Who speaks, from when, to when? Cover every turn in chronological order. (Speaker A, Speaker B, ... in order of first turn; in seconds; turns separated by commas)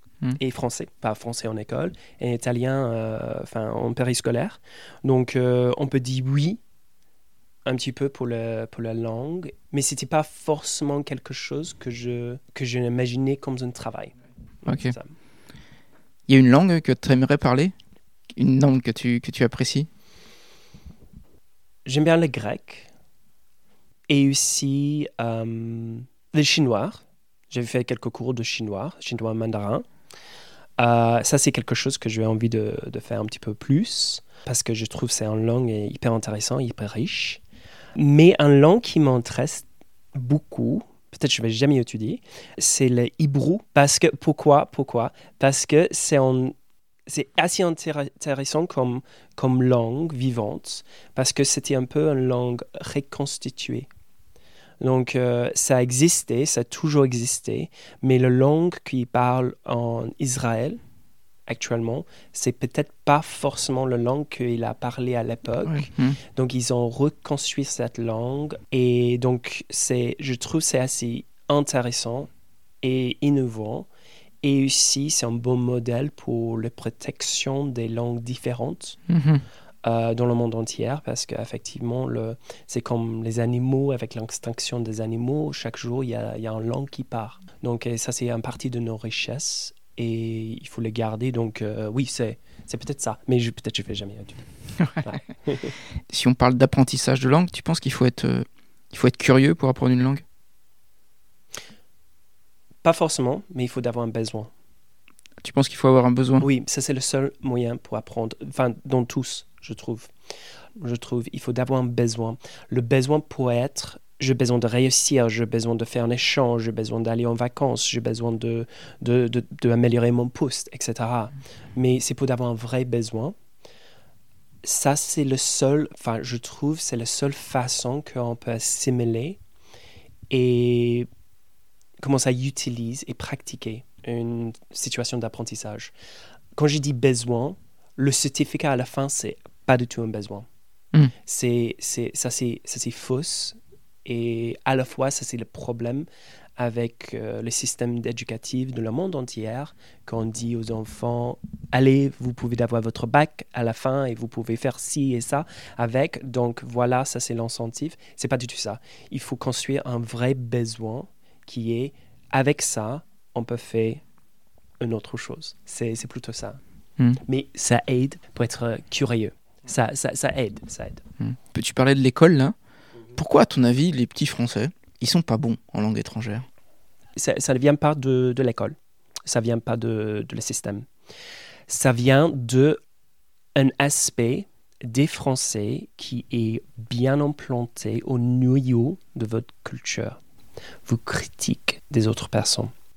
Speaker A: 0.4-6.6, Speaker A: 7.6-15.1, Speaker B: 14.7-14.9, Speaker B: 16.3-17.7, Speaker B: 18.4-19.9, Speaker A: 21.8-22.9, Speaker A: 24.1-29.9, Speaker A: 30.8-37.4, Speaker A: 37.9-46.5, Speaker A: 47.0-53.9, Speaker A: 54.8-60.8, Speaker A: 61.5-72.3, Speaker B: 65.6-66.2, Speaker A: 72.8-73.9, Speaker A: 74.4-79.0, Speaker B: 79.1-79.4, Speaker A: 79.8-94.5, Speaker B: 94.8-95.0, Speaker A: 95.0-95.7, Speaker B: 96.1-100.2, Speaker A: 102.8-104.5, Speaker B: 105.4-106.5, Speaker A: 106.4-110.1, Speaker A: 110.8-123.3, Speaker A: 124.6-129.4, Speaker A: 130.3-131.1, Speaker A: 132.0-135.9, Speaker A: 136.5-140.5, Speaker A: 141.2-164.0, Speaker A: 164.8-166.6, Speaker A: 167.2-171.0, Speaker B: 171.2-172.6, Speaker B: 173.1-176.5, Speaker A: 177.2-180.9, Speaker A: 181.7-182.8, Speaker A: 183.5-190.2, Speaker A: 190.8-192.7